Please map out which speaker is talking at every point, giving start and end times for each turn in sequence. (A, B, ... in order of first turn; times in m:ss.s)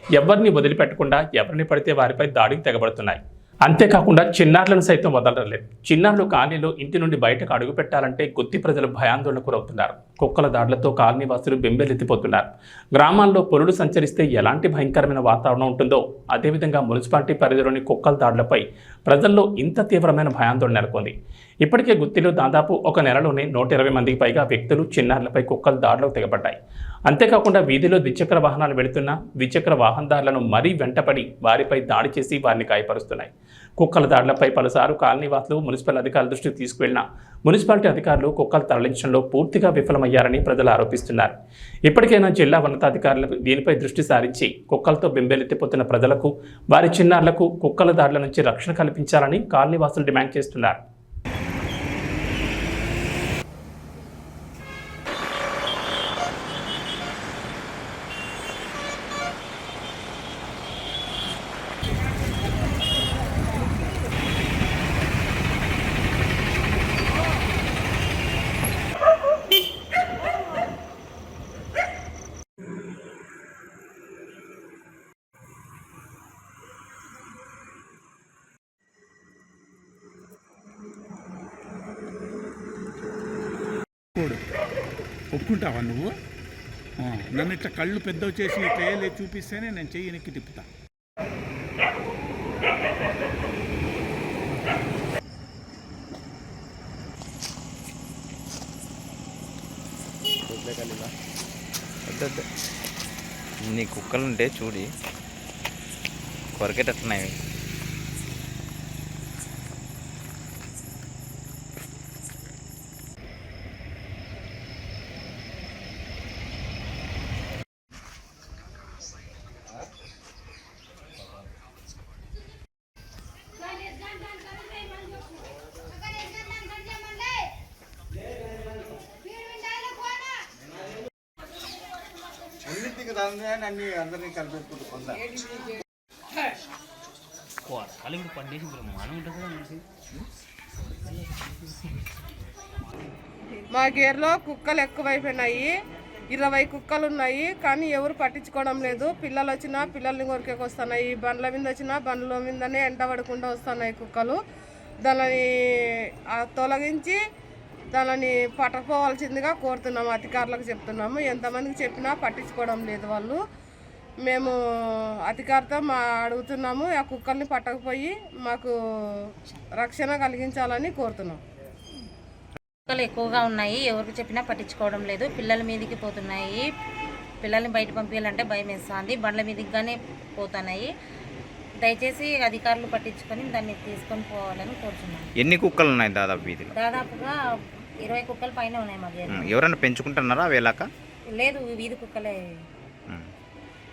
0:00.2-0:41.4 A
0:41.9-0:50.8 A
1:25.3-1:26.1 B
1:27.0-1:30.7 B
1:40.6-1:41.0 C
1:42.1-1:42.5 D
1:43.6-1:44.9 D
1:46.6-1:47.4 D
2:12.7-2:15.2 C
2:17.7-2:19.8 E
2:23.7-2:25.7 F
2:26.3-2:34.4 F
2:35.0-2:37.2 F
2:37.9-2:43.4 F
2:44.2-2:48.7 F
2:49.8-2:51.4 F
2:52.9-2:56.6 G
2:57.4-3:00.9 G
3:01.8-3:05.3 G
3:05.4-3:06.7 D
3:06.7-3:07.3 G
3:08.0-3:09.6 G
3:09.3-3:10.9 D
3:11.3-3:12.4 G